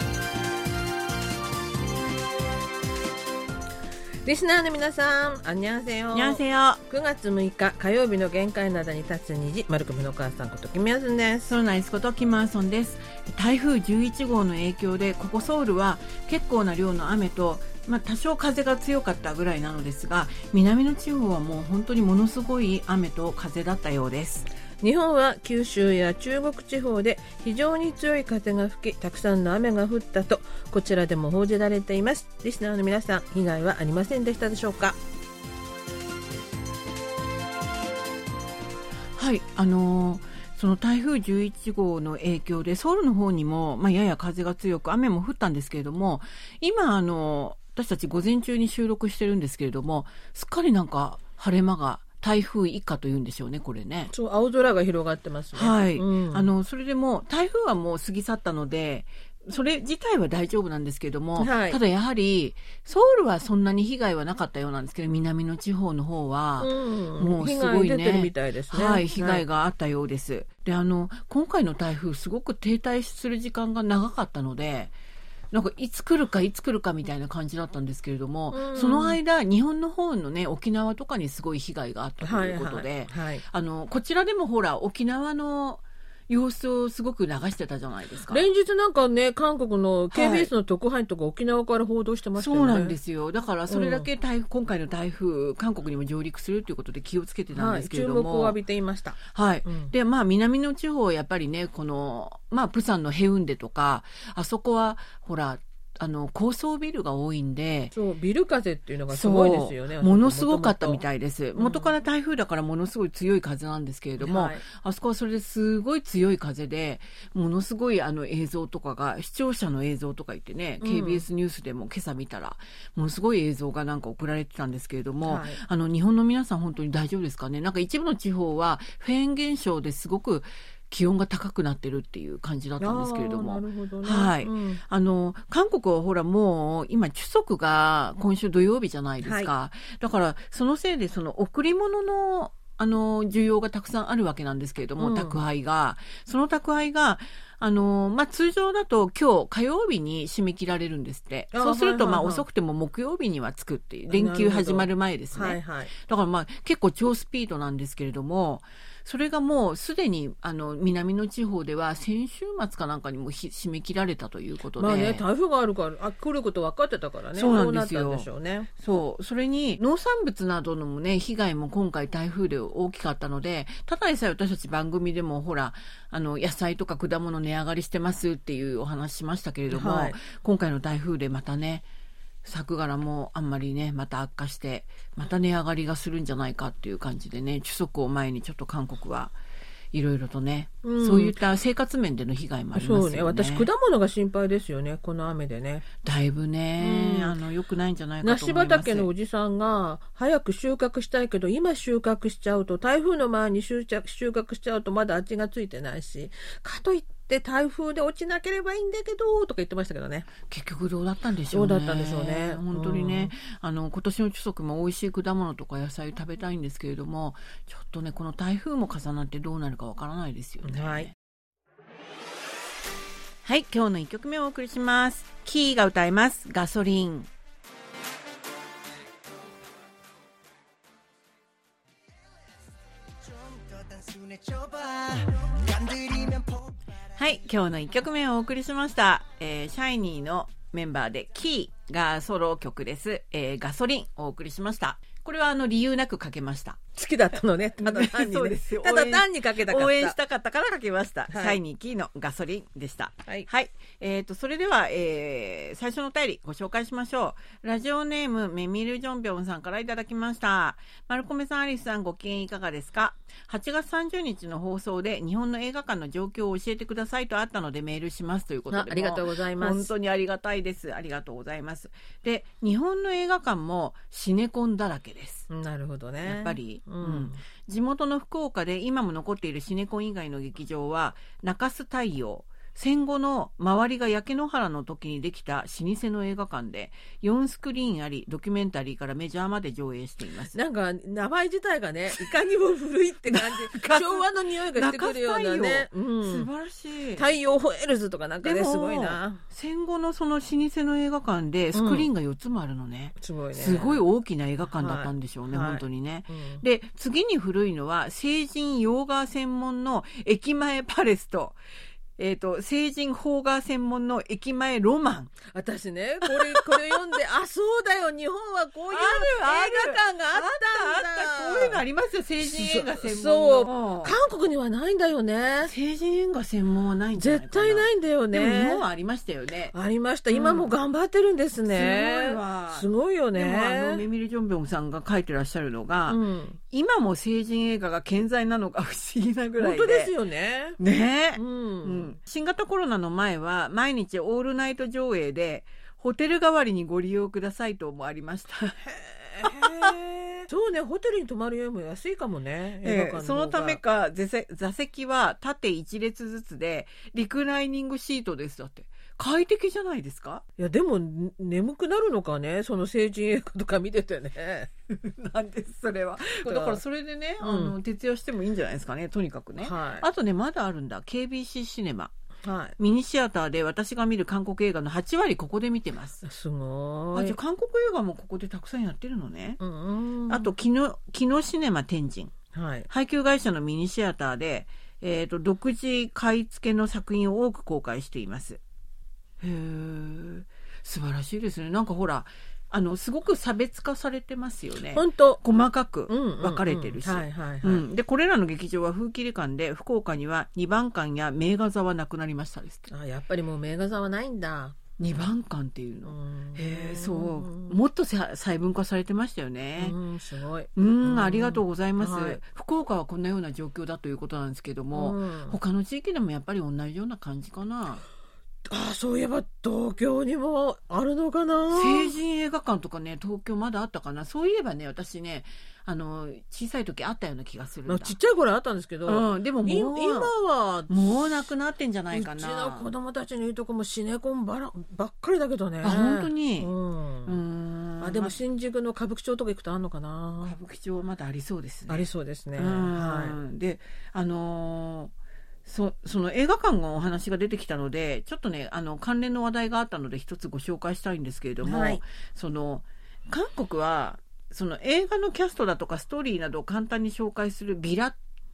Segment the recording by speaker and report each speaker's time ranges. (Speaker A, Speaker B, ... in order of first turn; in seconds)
Speaker A: 4.2-11.5, 24.8-35.0, 54.1-56.5, 61.4-61.8, 66.6-69.4, 78.5-79.2, 82.2-83.4, 88.3-93.0, 93.7-94.1, 97.5-99.9, 107.9-111.0, 111.6-111.9, 114.2-114.6, 120.8-121.2, 125.2-125.6, 132.8-134.8, 139.2-139.5, 145.0-145.4, 151.5-152.4, 154.1-155.9, 164.8-168.7, 179.7-180.2, 190.8-191.3, 192.7-195.8, 196.8-197.4, 198.2-210.3, 211.5-213.3, 220.6-221.1, 246.9-250.2, 251.3-251.6, 268.7-269.9, 275.5-277.4, 290.5-296.5, 297.1-299.4, 301.7-302.1, 303.2-304.0, 304.7-306.6, 315.4-321.8, 322.4-325.7, 327.1-328.9, 329.7-334.0, 336.1-336.6, 339.6-340.8, 341.4-342.1, 348.9-353.8, 360.6-364.7, 366.4-366.8, 367.4-367.7, 369.6-370.1, 372.4-372.8, 376.2-377.4, 379.6-380.5, 382.5-382.9, 394.9-395.4, 396.1-397.8, 402.9-404.8, 406.1-407.8, 409.8-412.4, 414.9-415.6, 418.7-422.1, 427.9-430.9, 432.1-437.4, 438.0-440.6, 441.9-443.4, 451.6-452.0
Speaker B: 6.1-6.8, 11.5-24.5, 39.1-54.1, 55.5-74.9, 75.5-88.5, 90.1-90.5, 92.4-98.6, 99.2-107.9, 109.1-165.2, 167.3-181.8, 182.4-189.3, 189.9-193.7, 196.0-199.1, 210.4-221.1, 223.4-227.3, 237.2-246.8, 247.8-275.5, 276.2-290.5, 293.3-297.2, 298.4-311.6, 312.2-315.4, 316.2-317.0, 318.9-324.2, 325.6-329.7, 330.3-330.7, 331.6-340.1, 340.8-348.8, 349.4-349.9, 352.8-360.4, 364.9-372.1, 372.8-376.2, 377.1-379.6, 380.3-382.3, 382.9-388.6, 389.4-402.9, 405.0-409.9, 410.8-418.0, 421.7-428.1, 429.1-430.3, 430.9-432.9, 435.8-436.7, 437.2-438.4, 440.4-445.1, 445.6-458.2
Speaker C: 233.2-236.7